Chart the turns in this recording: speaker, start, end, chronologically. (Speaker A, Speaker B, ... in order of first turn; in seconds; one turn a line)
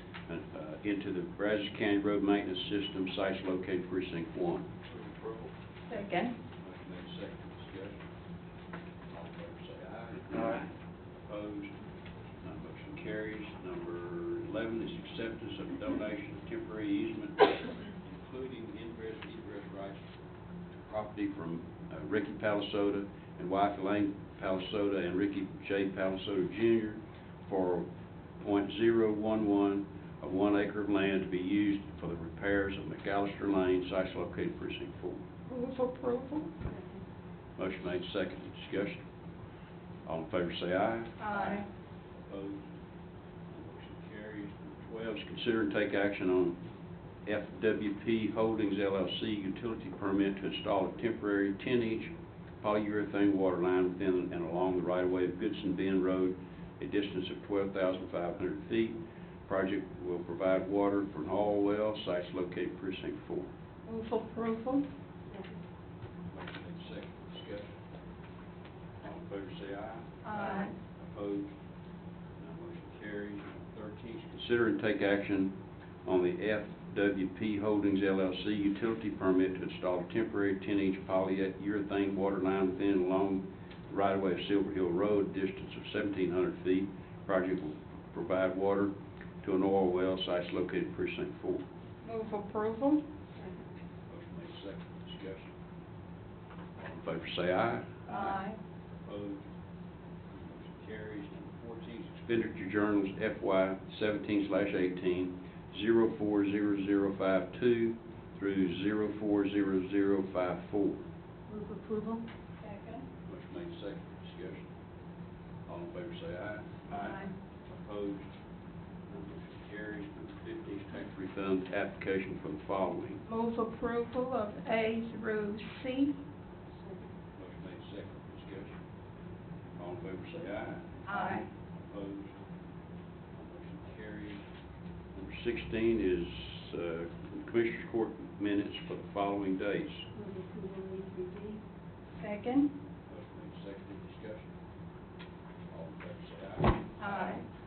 Speaker A: 0.3-5.5
Speaker B: 5.9-6.3
Speaker A: 6.6-8.0
Speaker A: 9.1-10.7
Speaker A: 11.2-11.8
Speaker A: 12.4-20.0
Speaker A: 20.8-27.9
Speaker A: 28.4-35.2
Speaker B: 35.5-36.5
Speaker A: 37.6-39.0
Speaker A: 40.1-41.6
Speaker B: 41.2-41.6
Speaker A: 42.2-42.7
Speaker A: 43.5-46.6
Speaker A: 47.2-63.5
Speaker B: 63.9-64.9
Speaker A: 66.3-67.8
Speaker A: 69.0-71.5
Speaker B: 70.2-70.7
Speaker A: 72.4-91.7
Speaker B: 92.0-93.0
Speaker A: 94.1-95.5
Speaker A: 96.8-98.4
Speaker B: 98.1-98.6
Speaker A: 99.0-99.5
Speaker A: 100.3-111.0
Speaker C: 111.5-112.2
Speaker B: 112.6-113.0
Speaker A: 113.3-114.7
Speaker A: 115.7-118.3
Speaker B: 116.9-117.3
Speaker A: 119.1-123.2
Speaker B: 123.3-126.2
Speaker A: 127.3-128.8
Speaker A: 129.8-132.4
Speaker B: 131.1-131.4
Speaker A: 133.3-134.4
Speaker A: 135.1-140.1
Speaker C: 140.2-141.6
Speaker B: 142.2-142.7
Speaker A: 143.1-144.5
Speaker A: 145.7-147.4
Speaker B: 147.0-147.4